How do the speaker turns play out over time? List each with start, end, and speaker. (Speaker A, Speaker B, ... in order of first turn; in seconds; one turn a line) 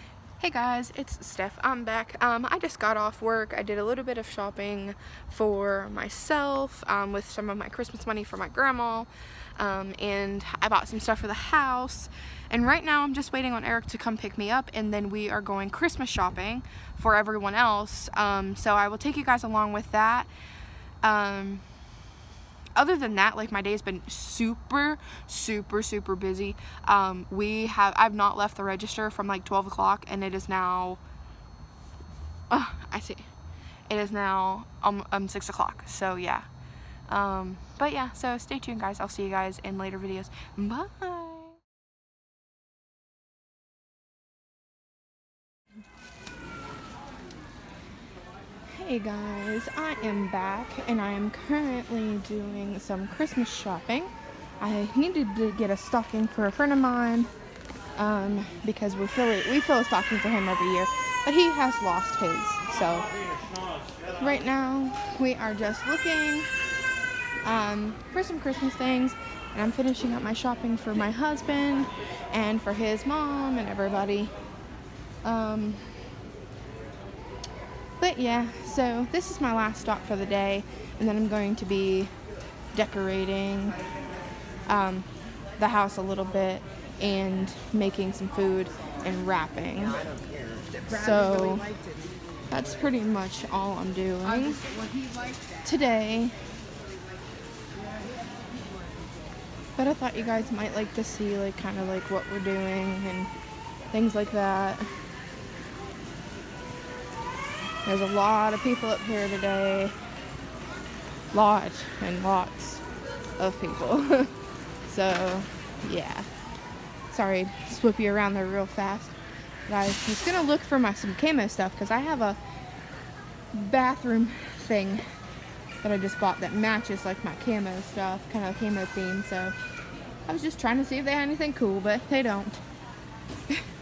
Speaker A: 0.4-20.3
Speaker A: 21.0-21.6
Speaker A: 22.8-31.0
Speaker A: 32.5-33.3
Speaker A: 33.9-36.5
Speaker A: 37.1-41.6
Speaker A: 48.7-57.3
Speaker A: 58.0-63.1
Speaker A: 64.2-66.5
Speaker A: 67.4-74.3
Speaker A: 75.2-75.9
Speaker A: 78.0-82.1
Speaker A: 82.7-83.8
Speaker A: 84.7-90.1
Speaker A: 90.8-91.8
Speaker A: 92.5-94.7
Speaker A: 95.6-96.4
Speaker A: 99.8-103.3
Speaker A: 103.9-104.9
Speaker A: 107.9-110.0
Speaker A: 111.3-112.8
Speaker A: 113.4-114.3
Speaker A: 114.9-116.3
Speaker A: 117.1-119.2
Speaker A: 119.7-122.4
Speaker A: 123.5-125.0
Speaker A: 125.8-129.6
Speaker A: 130.3-132.6